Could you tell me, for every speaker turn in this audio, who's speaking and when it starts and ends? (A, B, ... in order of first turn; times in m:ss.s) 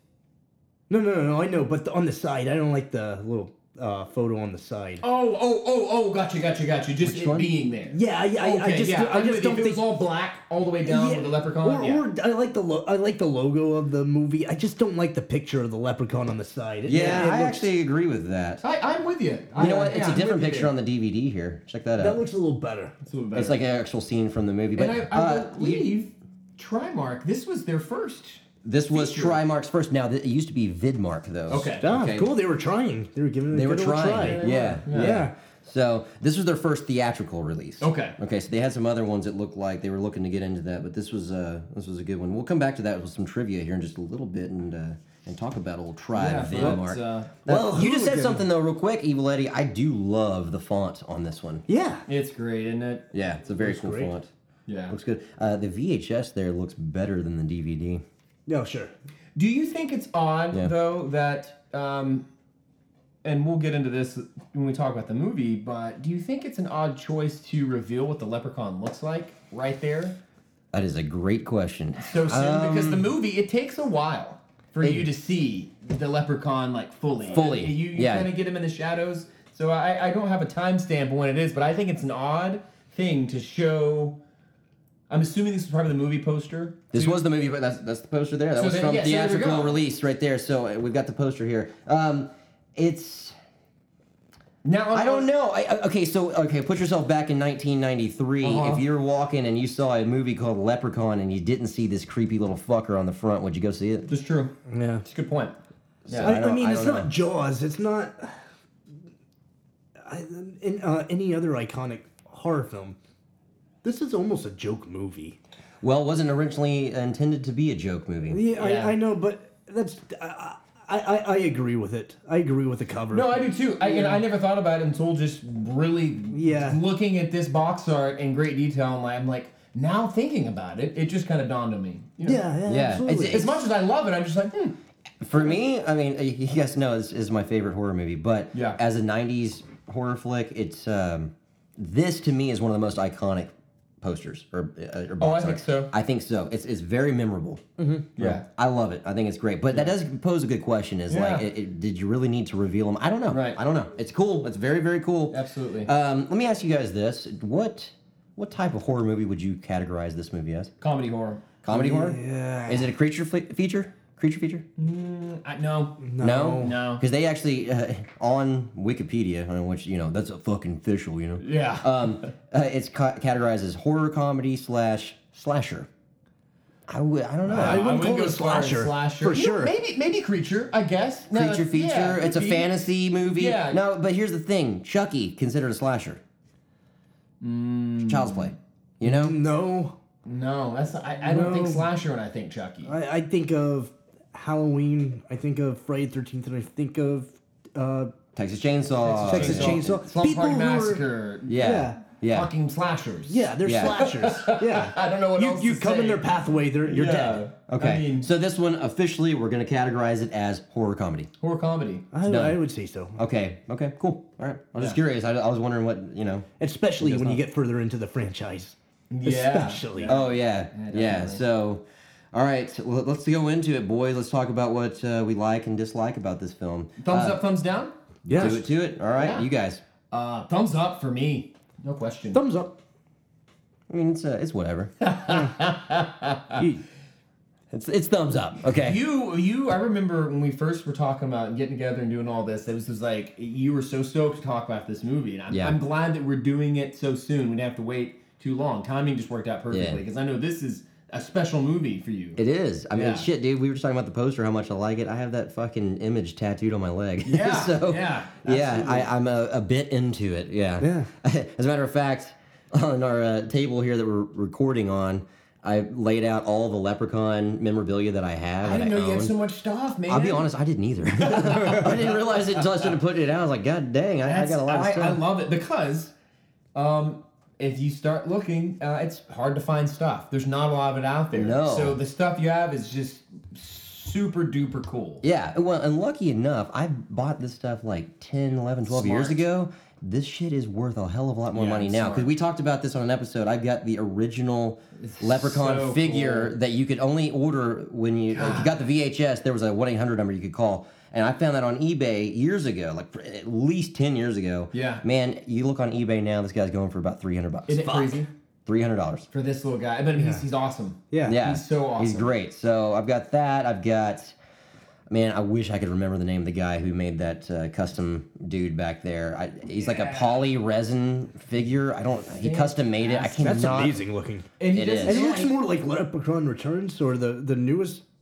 0:00.9-0:05.0 A
0:05.0-0:12.0 B
0:07.0-0:07.5 C
0:07.9-0:09.8 A
0:10.8-0:17.6 A
0:16.8-0:18.6 C
0:18.6-0:20.7 B
0:19.6-0:22.2 C
0:19.6-0:20.0 A
0:22.0-0:22.9 A
0:23.0-0:23.6 B
0:23.3-0:25.9 C
0:24.8-0:29.4 B
0:28.6-0:32.3 C
0:31.5-0:31.8 B
0:31.8-0:35.3 A
0:33.5-0:51.6 C
0:34.1-0:35.2 B
0:37.8-0:38.2 B
0:46.1-0:47.4 B
0:47.4-0:48.4 A
0:51.7-0:52.0 A
0:52.1-0:53.0 B
0:53.1-0:54.3 C
0:53.6-0:54.1 A
0:54.7-0:54.9 B
0:54.9-0:58.0 C
0:58.5-0:58.9 A
0:59.4-1:02.3 B
1:03.2-1:10.2 B
1:10.7-1:13.1 C
1:12.0-1:24.2 B
1:14.8-1:15.0 C
1:17.3-1:18.3 C
1:25.1-1:27.2 B
1:26.9-1:33.4 C
1:28.6-1:29.8 B
1:34.6-1:35.3 B
1:34.9-1:44.1 C
1:38.4-1:38.8 B
1:44.1-1:45.6 B
1:44.7-1:45.0 A
1:46.0-1:47.1 C
1:46.1-1:46.4 B
1:46.2-1:48.4 A
1:50.0-1:53.0 A
1:53.8-1:55.4 A
1:55.8-1:58.4 C
1:58.3-2:04.2 A
1:58.6-1:59.0 B
2:03.1-2:12.5 B
2:06.3-2:06.8 A
2:12.2-2:13.4 A
2:12.6-2:13.6 C
2:13.1-2:14.8 B
2:15.2-2:40.7 C
2:18.5-2:18.8 B
2:25.2-2:25.9 B
2:28.2-2:28.4 B
2:31.1-2:31.5 B
2:33.3-2:33.6 B
2:35.3-2:35.9 B
2:40.8-2:41.4 B
2:41.6-2:44.6 C
2:41.7-2:42.9 A
2:44.8-2:47.0 B
2:46.0-2:46.8 A
2:46.2-2:55.9 C
2:51.4-2:52.2 B
2:56.9-2:57.9 C
2:57.5-3:02.7 B
2:57.5-2:59.7 A
3:01.3-3:06.2 C
3:03.2-3:03.8 B
3:07.4-3:08.5 B
3:08.0-3:09.3 C
3:09.0-3:10.0 A
3:10.2-3:12.9 B
3:11.2-3:11.9 A
3:12.8-3:18.1 A
3:18.3-3:19.9 C
3:19.0-3:26.3 B
3:19.2-3:21.0 A
3:21.5-3:22.5 C
3:21.6-3:22.0 A
3:23.3-3:27.4 A
3:23.6-3:24.0 C
3:26.8-3:28.3 B
3:27.7-3:31.3 C
3:31.4-3:32.1 B
3:32.1-3:33.2 A
3:32.2-3:32.6 C
3:33.2-3:36.5 C
3:36.6-3:40.2 A
3:37.0-3:37.4 C
3:39.1-3:41.4 B
3:40.0-3:47.4 C
3:47.0-3:48.6 B
3:48.2-3:48.6 A
3:48.3-3:49.8 C
3:49.2-3:49.4 B
3:50.1-3:52.4 B
3:52.3-3:52.8 A
3:53.9-3:54.9 C
3:55.0-3:56.6 B
3:56.6-3:56.8 A
3:57.7-3:59.0 C
3:58.7-4:12.4 B
4:05.5-4:05.8 C
4:09.7-4:10.0 C
4:12.4-4:29.3 C
4:12.9-4:13.3 B
4:17.2-4:19.1 B
4:20.8-4:21.1 A
4:28.6-4:30.5 B
4:30.1-4:35.2 C
4:31.4-4:32.1 B
4:34.2-4:36.1 B
4:36.7-4:45.2 B
4:41.3-4:42.0 C
4:45.2-5:09.3 C
4:48.9-4:49.4 B
4:51.5-4:52.3 B
4:55.0-4:56.5 B
4:58.3-4:58.7 B
5:04.7-5:05.0 B
5:07.7-5:08.3 B
5:09.3-5:12.3 B
5:11.1-5:11.4 A
5:11.2-5:14.4 C
5:15.1-5:24.0 C
5:19.7-5:20.5 B
5:22.4-5:23.7 B
5:23.4-5:24.5 A
5:24.6-5:25.5 B
5:24.7-5:25.3 C
5:25.0-5:28.0 A